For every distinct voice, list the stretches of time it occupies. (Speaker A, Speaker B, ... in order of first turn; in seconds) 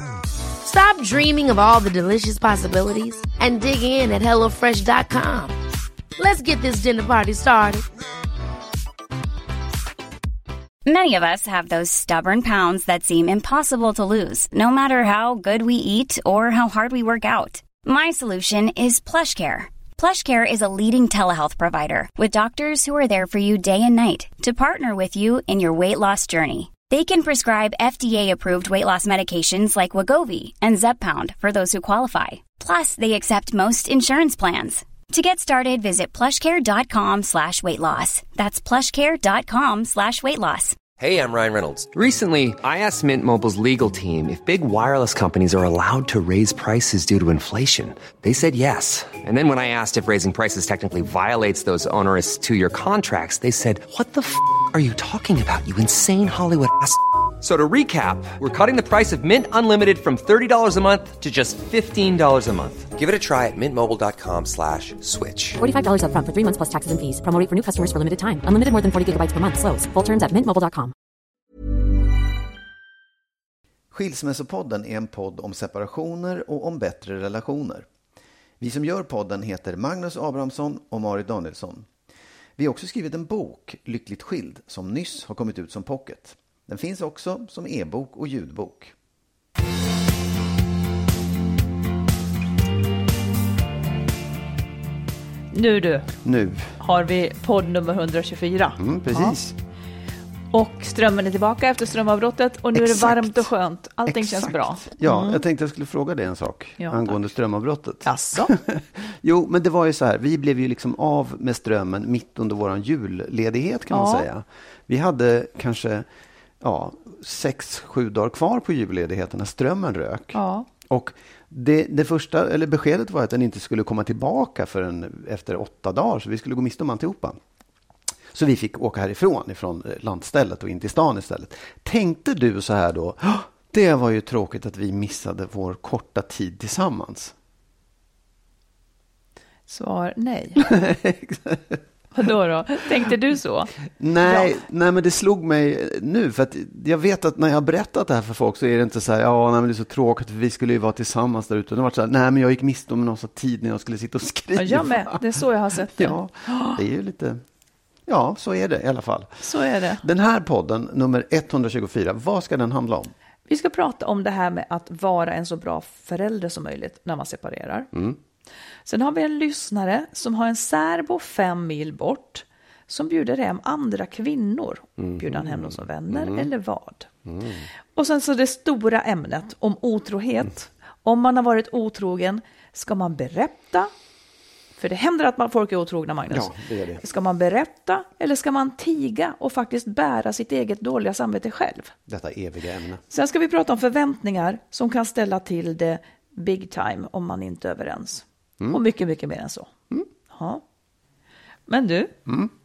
Speaker A: 0.6-5.5, 6.2-7.8
Speaker B: 10.8-40.8
Speaker C: 41.0-65.6
Speaker D: 65.6-70.9
Speaker E: 73.9-77.8, 78.6-81.9, 82.6-88.9, 96.2-96.8, 98.8-99.6, 102.7-103.5, 104.0-116.1, 116.6-127.4, 128.3-137.3, 140.6-141.8, 143.9-155.2, 155.8-157.4, 158.1-163.1, 167.9-168.2, 175.0-176.5, 177.2-177.7, 186.3-187.0, 192.1-193.0, 202.2-202.5
Speaker F: 95.5-96.1, 96.8-99.4, 100.5-105.4, 106.8-107.2, 108.0-108.5, 113.9-114.2, 120.3-120.7, 139.7-140.6, 142.1-143.7, 144.2-144.5, 154.6-156.8, 159.4-160.0, 163.5-167.9, 168.8-177.1, 177.9-183.9, 184.8-191.9, 193.1-199.7, 200.3-200.6, 201.7-202.1